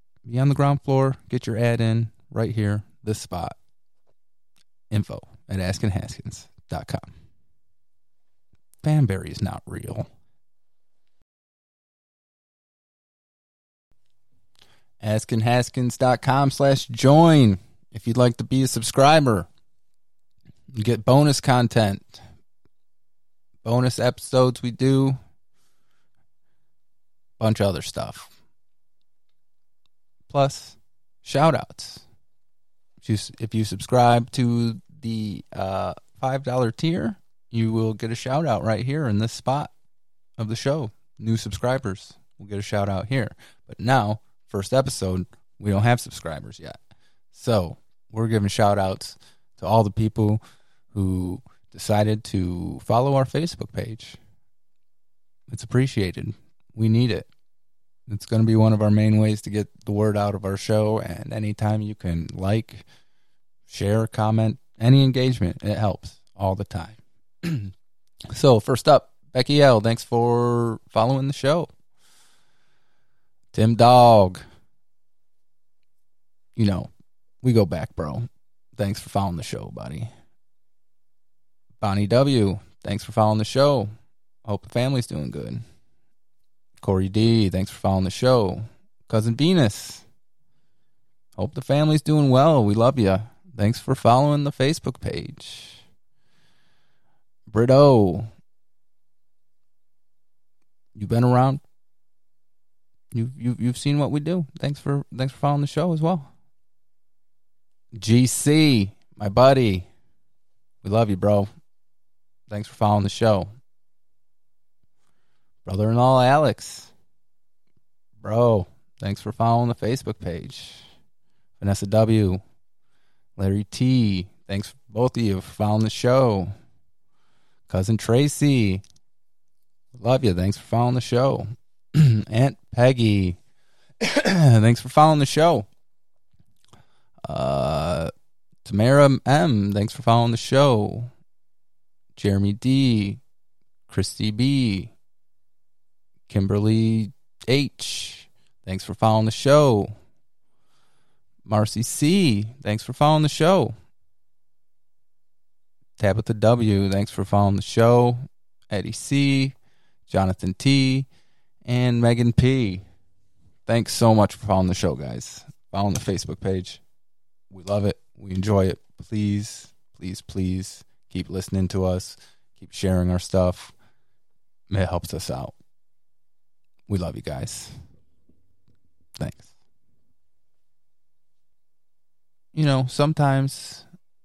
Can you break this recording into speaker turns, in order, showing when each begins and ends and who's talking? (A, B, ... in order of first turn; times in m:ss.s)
0:00.2-0:03.6 A
0:04.9-0:07.1 A
0:08.8-0:10.1 A
0:15.0-0:19.5 A
0:20.7-0:22.2 A
0:23.6-0:25.2 A
0:27.4-0:28.3 A
0:30.3-0:32.0 A
0:33.0-0:39.7 A
0:40.4-0:46.8 A
0:47.3-0:50.4 A
0:50.9-0:54.2 A
0:55.5-0:57.3 A
0:58.1-1:02.8 A
1:03.7-1:07.7 A
1:08.3-1:11.7 A
1:13.5-1:14.4 A
1:16.6-1:16.9 A
1:17.4-1:20.1 A
1:21.8-1:23.9 A
1:24.4-1:25.6 A
1:26.8-1:30.0 A
1:31.4-1:35.8 A
1:37.5-1:38.3 A
1:41.0-1:41.6 A
1:43.1-1:46.3 A
1:47.9-1:49.9 A
1:50.8-1:51.5 A
1:52.5-1:53.5 A
1:55.6-1:56.9 A
1:58.2-2:00.9 A
2:01.6-2:02.4 A
2:03.4-2:06.5 A
2:07.7-2:08.8 A
2:10.0-2:13.4 A
2:14.0-2:15.7 A
2:17.2-2:18.1 A
2:18.6-2:21.1 A
2:22.2-2:23.2 A
2:23.9-2:24.9 A
2:26.3-2:29.9 A
2:31.4-2:33.7 A
2:36.0-2:39.6 A
2:40.1-2:41.1 A
2:41.6-2:42.8 A
2:43.7-2:46.8 A
2:47.5-2:53.7 A
2:54.7-2:55.6 A
2:56.9-2:57.8 A
2:59.2-2:59.5 A
3:02.5-3:03.9 A